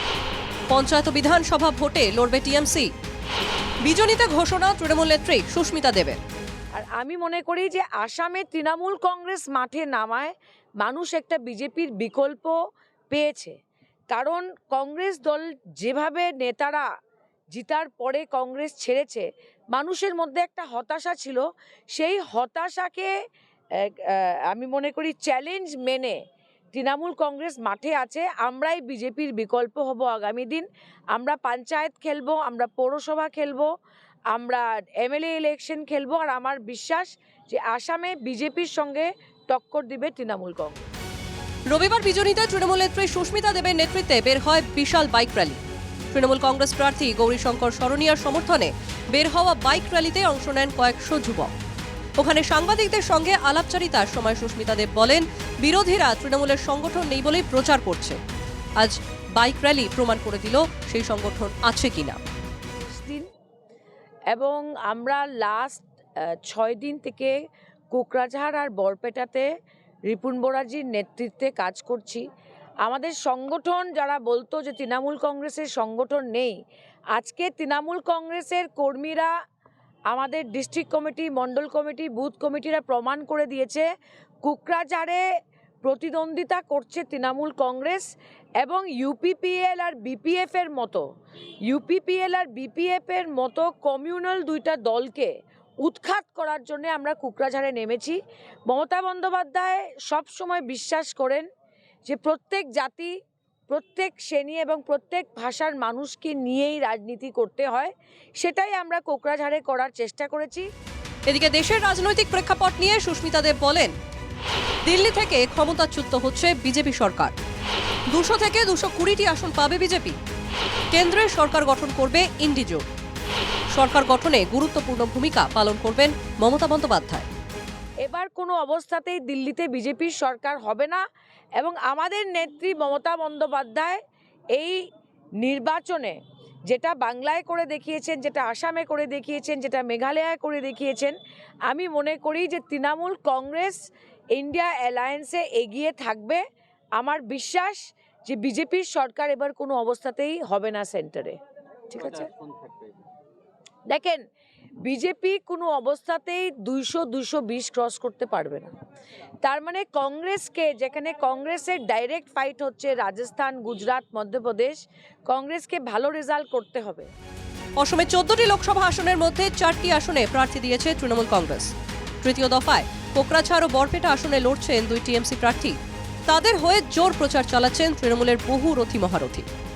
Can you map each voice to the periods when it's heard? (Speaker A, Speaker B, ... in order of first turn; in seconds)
Speaker A: 0.7-2.9, 3.8-6.2, 41.7-45.6, 46.1-51.5, 52.2-58.2, 58.8-62.2, 111.3-113.9, 114.8-117.3, 118.1-120.2, 120.9-122.8, 123.7-127.3, 167.8-179.5
Speaker B: 6.8-12.6, 13.1-13.5, 14.1-16.9, 17.5-23.1, 23.8-26.2, 26.7-33.7, 34.3-40.9, 62.9-63.3, 64.3-67.3, 67.9-69.5, 70.1-72.3, 72.8-76.6, 77.1-79.3, 80.1-83.9, 84.4-85.2, 85.8-91.0, 91.7-101.5, 102.1-103.2, 103.7-110.7, 128.0-131.0, 131.6-134.0, 135.4-141.2, 141.7-146.4, 147.0-151.4, 151.9-152.3, 153.9-154.2, 154.8-158.7, 159.4-167.1